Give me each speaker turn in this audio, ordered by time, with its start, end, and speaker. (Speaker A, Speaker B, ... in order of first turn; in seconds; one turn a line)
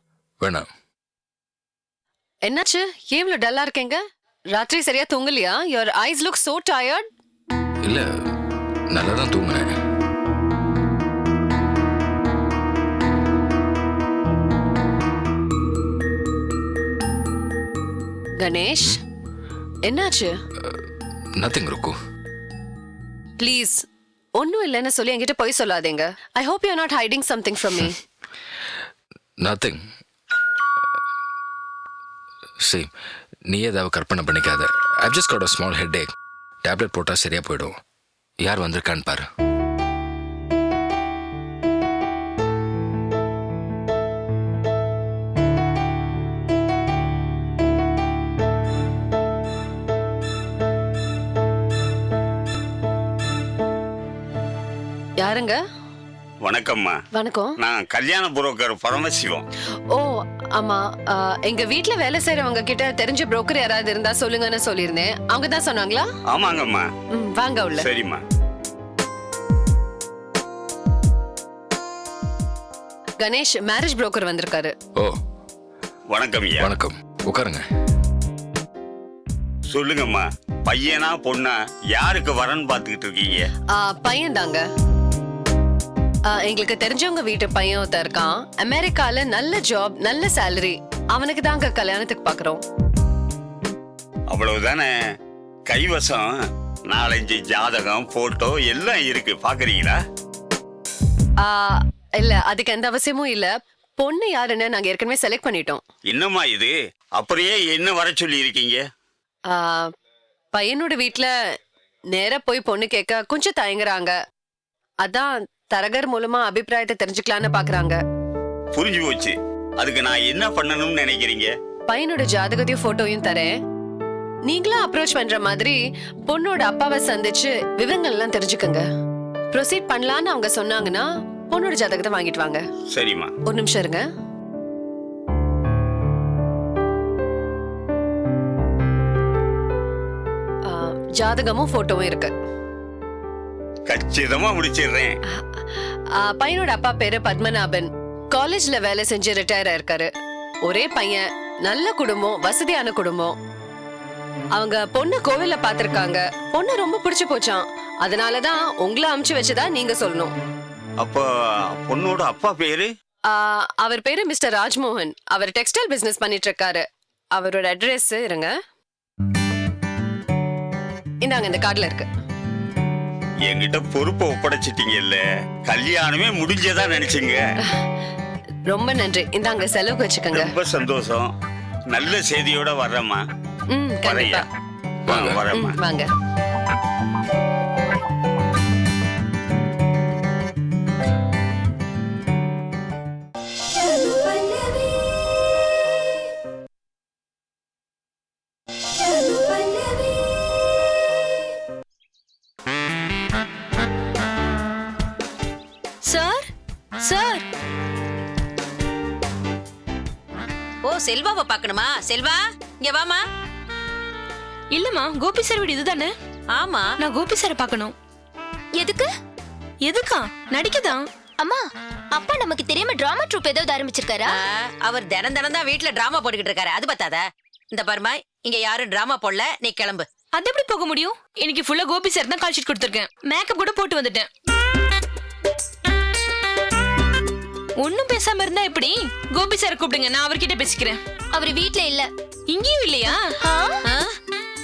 Speaker A: 0.4-0.7
Speaker B: 2.5-4.0
Speaker B: 4.5-7.0
Speaker A: 7.8-8.1
Speaker A: 8.9-9.8
Speaker B: 18.4-18.9
Speaker B: 19.9-20.3
Speaker A: 21.4-22.0
Speaker B: 23.4-23.8
Speaker B: 24.4-27.9
Speaker A: 29.4-29.8
Speaker A: 32.6-32.9
Speaker A: 33.5-37.8
Speaker A: 38.4-39.3
Speaker B: 55.2-55.6
Speaker C: 56.4-57.0
Speaker B: 57.1-57.5
Speaker C: 57.6-59.5
Speaker B: 59.9-66.1
Speaker C: 66.3-66.9
Speaker B: 67.1-67.9
Speaker C: 67.7-68.2
Speaker B: 73.2-74.7
Speaker C: 76.1-76.7
Speaker A: 76.6-77.7
Speaker C: 79.7-83.5
Speaker B: 83.8-84.6
Speaker B: 86.3-92.6
Speaker C: 94.3-94.9
Speaker C: 95.7-96.3
Speaker C: 96.9-100.0
Speaker B: 101.4-105.8
Speaker C: 106.1-108.8
Speaker B: 109.5-109.9
Speaker B: 110.5-111.3
Speaker B: 112.1-114.2
Speaker B: 115.0-118.0
Speaker C: 118.7-121.5
Speaker B: 121.9-123.5
Speaker B: 124.5-128.8
Speaker B: 129.5-132.6
Speaker C: 132.9-133.3
Speaker B: 133.5-134.0
Speaker B: 140.7-142.3
Speaker C: 143.9-145.2
Speaker B: 146.2-150.1
Speaker B: 150.7-153.4
Speaker B: 154.6-160.3
Speaker C: 161.0-162.9
Speaker B: 163.3-168.5
Speaker B: 171.2-172.1
Speaker C: 173.5-177.4
Speaker B: 178.7-180.5
Speaker C: 180.3-181.3
Speaker C: 181.9-183.2
Speaker B: 183.7-184.5
Speaker C: 184.0-184.5
Speaker A: 185.1-185.4
Speaker C: 185.1-185.8
Speaker B: 185.5-186.1
Speaker D: 206.1-206.5
Speaker D: 207.0-207.4
Speaker E: 210.8-213.2
Speaker D: 214.7-216.1
Speaker E: 216.5-216.9
Speaker D: 217.0-217.9
Speaker F: 218.8-219.1
Speaker D: 219.8-221.0
Speaker F: 221.4-224.4
Speaker E: 224.3-230.1
Speaker D: 230.3-234.3
Speaker D: 237.8-241.0
Speaker F: 241.3-242.1
Speaker D: 242.5-243.3
Speaker F: 243.4-243.8
Speaker E: 243.8-244.1